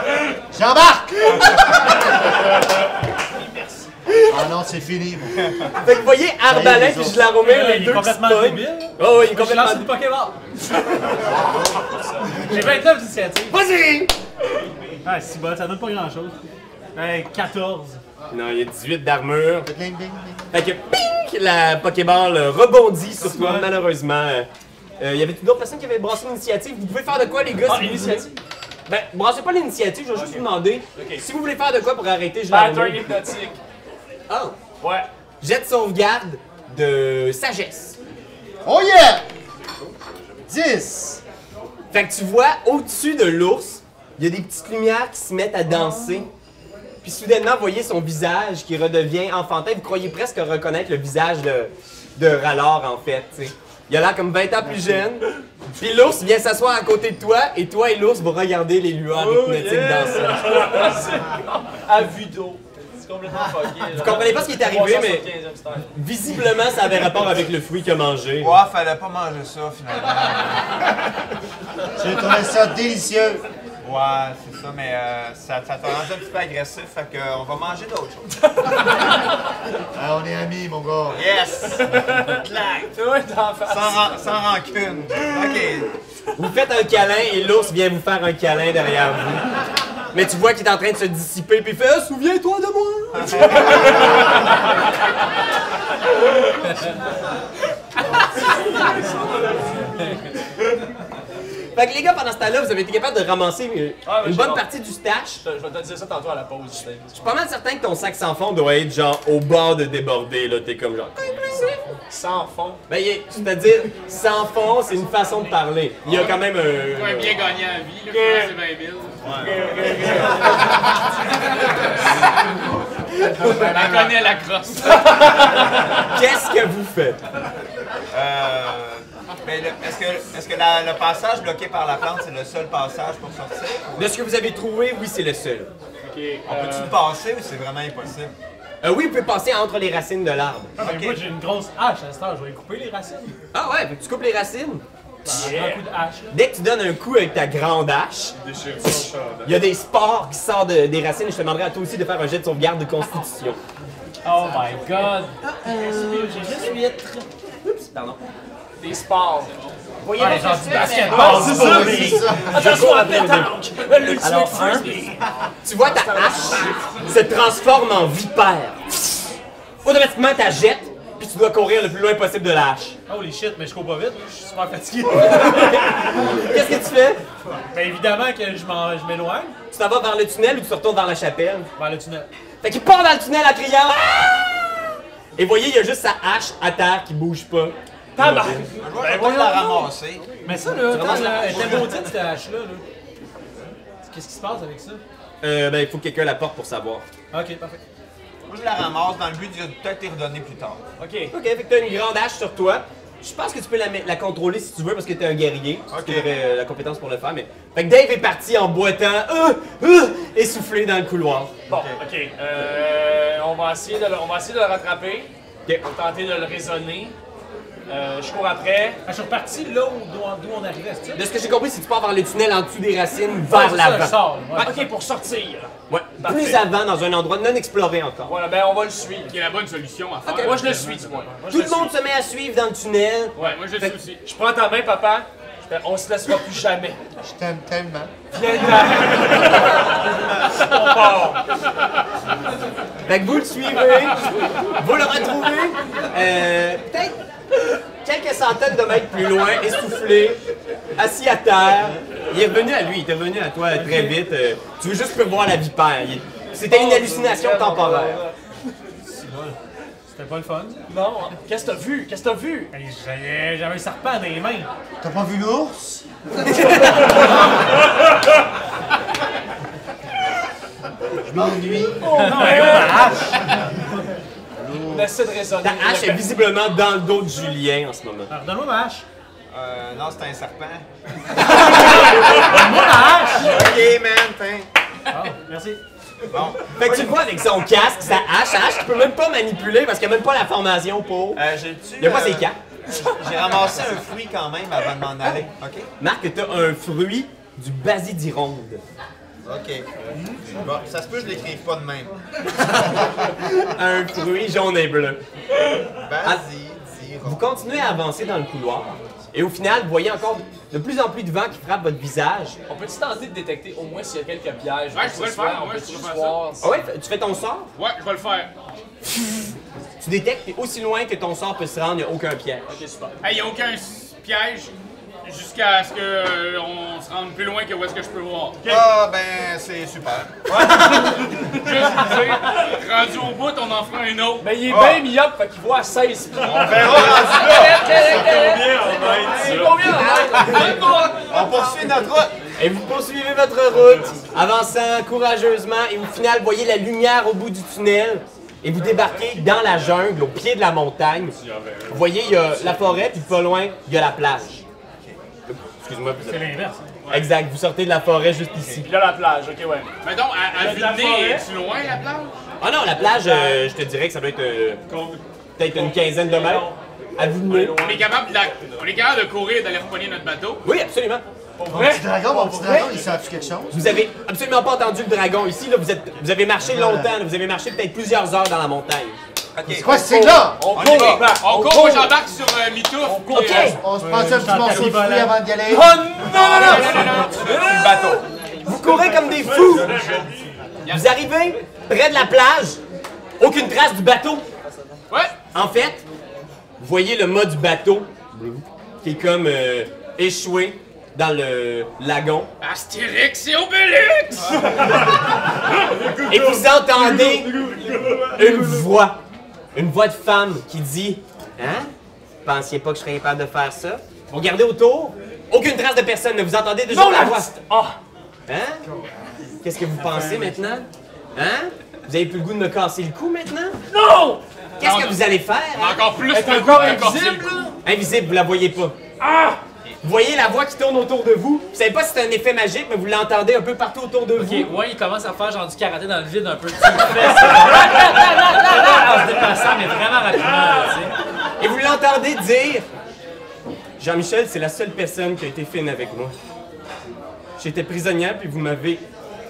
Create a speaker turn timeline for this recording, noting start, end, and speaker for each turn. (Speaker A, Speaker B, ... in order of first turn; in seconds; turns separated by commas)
Speaker A: 0.5-1.8, Speaker B: 3.3-3.9, Speaker A: 4.3-5.5, Speaker C: 5.7-9.9, Speaker A: 6.4-7.3, Speaker D: 7.3-10.5, Speaker D: 12.4-13.6, Speaker C: 13.5-14.2, Speaker D: 15.0-16.4, Speaker D: 16.9-18.0, Speaker C: 18.3-19.7, Speaker A: 19.6-20.4, Speaker C: 20.5-24.5, Speaker B: 23.1-23.7, Speaker C: 25.0-28.2, Speaker B: 27.6-28.4, Speaker C: 28.9-33.2, Speaker B: 30.1-31.2, Speaker B: 32.5-33.6, Speaker C: 34.3-34.6, Speaker B: 34.8-35.1, Speaker C: 35.4-38.0, Speaker A: 38.6-39.2, Speaker A: 40.5-41.2, Speaker C: 41.9-46.3, Speaker A: 45.7-46.2, Speaker C: 47.0-60.9, Speaker B: 59.1-65.9, Speaker C: 63.9-65.3, Speaker C: 65.9-68.6, Speaker E: 68.4-70.7, Speaker A: 72.0-73.5, Speaker E: 73.8-78.3, Speaker A: 79.9-81.2, Speaker E: 81.1-81.9, Speaker B: 81.8-84.0, Speaker E: 83.7-85.9, Speaker B: 85.3-85.7, Speaker C: 86.3-89.5, Speaker C: 90.1-93.9, Speaker E: 93.1-94.1, Speaker B: 98.4-100.2, Speaker C: 101.7-105.4, Speaker B: 104.0-104.7, Speaker B: 105.4-107.3, Speaker C: 107.1-112.0, Speaker B: 112.1-112.8, Speaker C: 112.9-117.5, Speaker E: 116.0-116.3, Speaker F: 116.8-119.6, Speaker B: 118.1-118.5, Speaker E: 119.2-119.6, Speaker B: 119.3-121.0, Speaker C: 123.2-123.8, Speaker F: 123.4-125.5, Speaker B: 125.2-125.7, Speaker C: 126.0-127.2, Speaker E: 128.1-134.1, Speaker C: 133.9-135.7, Speaker B: 136.0-137.0, Speaker E: 136.4-138.3, Speaker C: 138.8-140.7, Speaker D: 140.8-143.3, Speaker E: 140.8-141.3, Speaker C: 143.5-144.8, Speaker D: 145.2-146.3, Speaker B: 145.2-145.9, Speaker C: 146.3-148.3, Speaker G: 148.4-149.7, Speaker C: 149.4-153.6, Speaker D: 154.2-157.2, Speaker C: 155.7-156.6, Speaker C: 157.6-158.2, Speaker B: 158.8-159.6, Speaker C: 160.0-163.5, Speaker D: 160.2-163.0, Speaker B: 160.7-165.2, Speaker A: 161.4-162.6, Speaker D: 164.1-164.9, Speaker C: 164.2-164.9, Speaker C: 165.6-169.3, Speaker B: 165.8-167.0, Speaker C: 169.8-172.9, Speaker D: 173.1-176.4, Speaker C: 175.2-177.2, Speaker D: 177.7-179.5, Speaker C: 179.7-181.7, Speaker D: 181.8-182.3, Speaker C: 182.6-184.5, Speaker C: 185.3-188.6, Speaker B: 188.2-188.7, Speaker D: 188.2-189.9, Speaker E: 188.8-190.4, Speaker D: 190.4-192.8, Speaker C: 190.8-192.1, Speaker E: 191.5-191.9, Speaker D: 194.0-195.0, Speaker C: 195.4-197.1, Speaker D: 197.3-197.8, Speaker E: 198.5-200.8, Speaker B: 201.0-201.3, Speaker C: 201.3-211.5, Speaker E: 205.9-206.3, Speaker E: 211.7-212.0, Speaker B: 211.7-217.1, Speaker B: 217.9-219.0, Speaker D: 219.1-221.2, Speaker C: 221.1-224.7, Speaker D: 223.5-224.9, Speaker B: 224.5-226.6, Speaker C: 225.9-228.3, Speaker B: 228.2-229.3, Speaker F: 229.3-230.9, Speaker C: 230.2-230.6, Speaker B: 230.4-231.9, Speaker C: 231.5-234.0, Speaker B: 233.3-233.7, Speaker F: 233.4-234.2, Speaker B: 234.2-237.0, Speaker A: 237.2-238.1, Speaker B: 238.3-241.4, Speaker C: 243.1-250.4, Speaker C: 251.0-258.2, Speaker B: 253.8-254.0, Speaker B: 256.6-258.3, Speaker D: 259.0-259.6, Speaker D: 260.1-260.8, Speaker B: 260.9-262.7, Speaker D: 262.7-264.7, Speaker A: 265.0-266.0, Speaker C: 266.5-267.2, Speaker A: 271.2-272.3, Speaker B: 272.0-273.4, Speaker D: 272.2-273.5, Speaker A: 274.6-275.1, Speaker B: 274.8-276.2, Speaker C: 275.6-278.3, Speaker D: 278.3-279.0, Speaker E: 279.5-280.8, Speaker E: 281.9-282.5, Speaker D: 282.1-283.6, Speaker E: 283.3-284.7, Speaker D: 285.1-285.8, Speaker E: 286.3-287.1, Speaker C: 286.7-291.4, Speaker E: 291.3-295.9, Speaker C: 292.0-292.6, Speaker C: 296.0-298.8, Speaker E: 299.4-299.9, Speaker E: 300.5-302.1, Speaker C: 302.5-305.2, Speaker E: 306.0-307.4, Speaker C: 307.2-312.6, Speaker B: 312.7-316.8, Speaker F: 314.9-316.4, Speaker C: 316.6-317.7, Speaker F: 317.8-318.5, Speaker C: 320.0-322.6, Speaker B: 322.7-323.1, Speaker F: 323.2-324.7, Speaker F: 325.2-328.6, Speaker E: 328.6-330.4, Speaker B: 330.5-332.5, Speaker F: 331.6-334.5, Speaker B: 334.4-341.1, Speaker E: 334.6-335.1, Speaker E: 336.4-338.0, Speaker G: 336.6-340.0, Speaker C: 339.8-340.8, Speaker E: 340.5-342.3, Speaker C: 342.6-351.4, Speaker G: 343.8-344.3, Speaker G: 348.9-350.1, Speaker G: 351.4-353.0, Speaker C: 351.9-354.6, Speaker C: 355.5-358.9, Speaker D: 356.2-357.0, Speaker B: 357.0-357.3, Speaker B: 358.7-359.9, Speaker F: 360.0-362.3, Speaker B: 360.5-361.5, Speaker C: 362.6-364.8, Speaker B: 363.0-363.6, Speaker G: 364.9-365.2, Speaker C: 365.6-367.8, Speaker B: 365.7-366.8, Speaker B: 367.4-368.2, Speaker F: 367.8-370.6, Speaker C: 370.6-371.2, Speaker B: 371.6-373.0, Speaker A: 371.7-373.8, Speaker G: 372.8-373.5, Speaker C: 373.7-379.2, Speaker A: 376.6-377.1, Speaker E: 379.6-380.0, Speaker A: 379.7-380.8, Speaker B: 379.9-382.1, Speaker E: 380.7-381.3, Speaker F: 381.2-383.7, Speaker B: 383.0-383.8, Speaker C: 383.3-383.8, Speaker A: 383.8-386.2, Speaker D: 383.9-385.3, Speaker B: 384.6-388.2, Speaker F: 386.2-387.8, Speaker E: 386.9-388.2, Speaker C: 388.6-390.1, Speaker G: 389.2-390.6, Speaker F: 390.8-391.1, Speaker C: 390.9-392.8, Speaker C: 393.4-394.5, Speaker F: 395.1-395.3, Speaker C: 395.5-396.0, Speaker C: 396.8-402.5, Speaker F: 402.6-404.6, Speaker G: 405.8-408.8, Speaker C: 406.3-407.6, Speaker C: 408.3-409.2, Speaker C: 409.7-411.9, Speaker C: 412.4-417.5, Speaker B: 416.9-418.0, Speaker C: 418.5-418.8, Speaker C: 419.6-423.8, Speaker B: 423.9-424.4, Speaker C: 424.8-426.0, Speaker F: 424.8-425.2, Speaker F: 425.7-427.6, Speaker B: 426.3-427.8, Speaker C: 427.8-428.9, Speaker B: 429.2-429.6, Speaker C: 430.0-434.7, Speaker H: 434.4-441.1, Speaker C: 441.6-442.9, Speaker C: 444.0-446.3, Speaker C: 447.6-449.0